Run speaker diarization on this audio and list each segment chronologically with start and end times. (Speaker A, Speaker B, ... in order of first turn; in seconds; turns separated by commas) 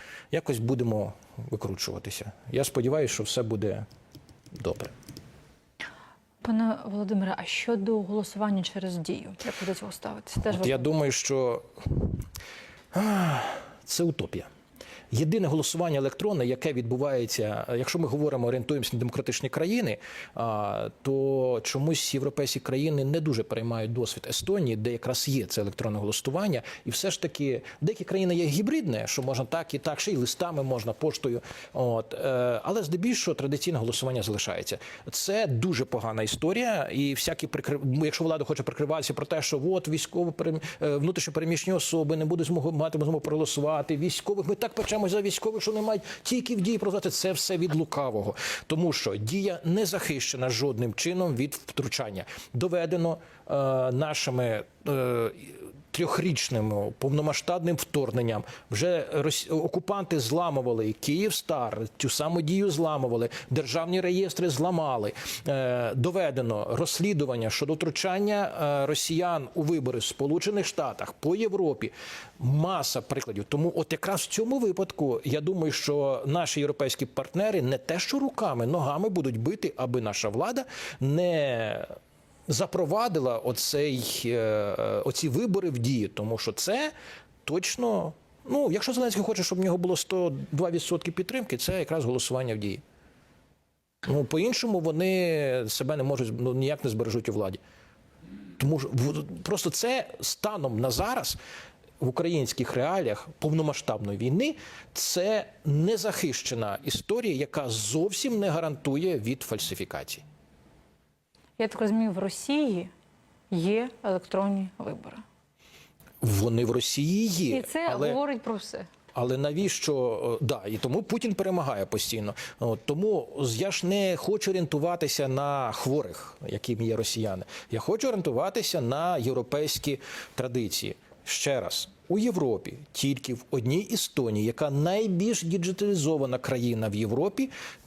Speaker A: 0.3-3.9, Speaker A: 4.5-4.9, Speaker B: 6.4-10.9, Speaker A: 10.4-12.2, Speaker A: 12.9-14.5, Speaker A: 15.1-81.9, Speaker A: 82.5-86.9, Speaker A: 87.4-92.8, Speaker A: 94.0-97.6, Speaker A: 98.6-101.4, Speaker A: 102.0-110.2, Speaker B: 111.6-112.9, Speaker B: 113.5-115.2, Speaker A: 116.2-118.2, Speaker B: 117.5-118.9, Speaker A: 119.1-137.5